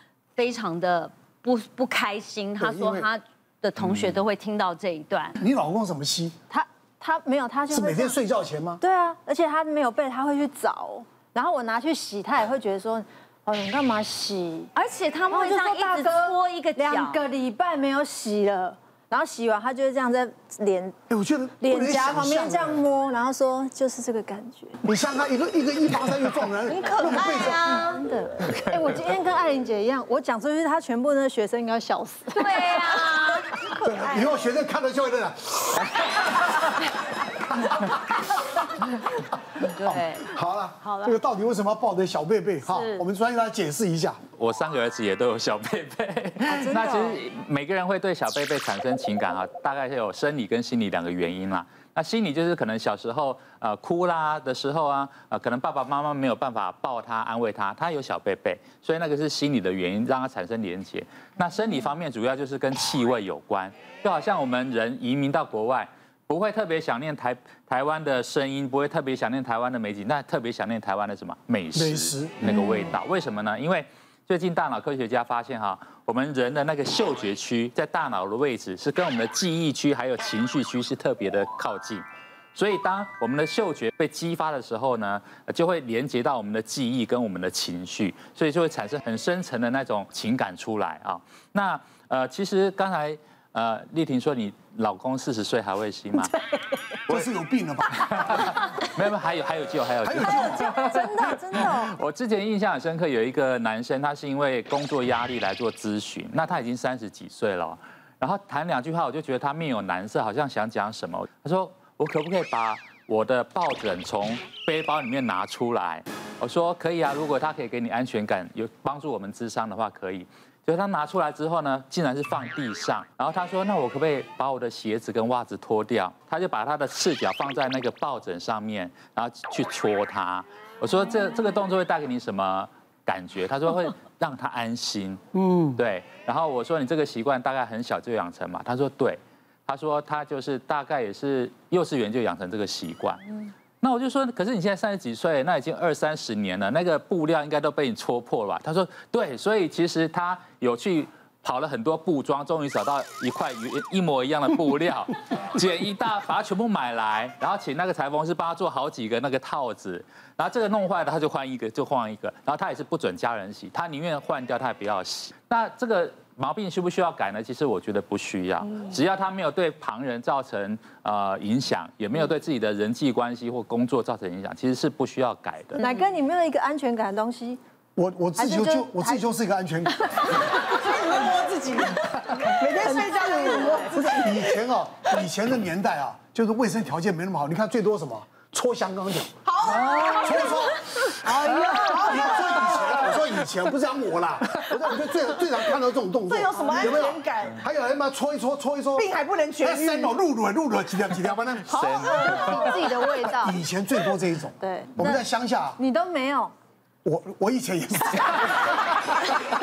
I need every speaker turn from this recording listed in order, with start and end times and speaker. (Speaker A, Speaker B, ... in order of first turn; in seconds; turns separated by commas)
Speaker A: 0.4-5.3, Speaker B: 2.6-3.1, Speaker C: 3.8-4.2, Speaker B: 5.4-6.3, Speaker D: 6.5-8.2, Speaker B: 7.7-8.8, Speaker D: 8.8-14.7, Speaker A: 14.8-17.2, Speaker D: 15.3-20.9, Speaker B: 21.1-22.8, Speaker D: 21.6-24.8, Speaker B: 24.8-27.8, Speaker A: 26.8-28.0, Speaker E: 26.9-27.5, Speaker D: 27.1-32.6, Speaker A: 32.3-33.5, Speaker B: 33.8-35.9, Speaker A: 39.6-40.3, Speaker B: 39.9-44.2, Speaker A: 40.9-41.1, Speaker A: 42.6-43.0, Speaker C: 44.4-96.3, Speaker D: 46.5-47.2, Speaker B: 71.7-72.6, Speaker B: 97.1-98.2, Speaker C: 97.9-135.2, Speaker B: 100.0-100.7, Speaker D: 100.5-101.9, Speaker B: 135.3-135.8, Speaker C: 135.8-175.8, Speaker D: 175.8-177.6, Speaker B: 178.0-180.4, Speaker D: 178.4-179.2, Speaker E: 180.7-184.6, Speaker D: 182.8-183.9, Speaker B: 183.9-199.1, Speaker E: 189.5-190.6, Speaker E: 191.3-193.2, Speaker D: 192.5-193.1, Speaker E: 196.3-197.6, Speaker E: 198.9-200.1, Speaker B: 199.6-202.5, Speaker C: 201.7-202.9, Speaker D: 201.7-203.6, Speaker B: 203.2-205.8, Speaker D: 204.6-205.2, Speaker D: 205.8-206.5, Speaker B: 207.1-209.0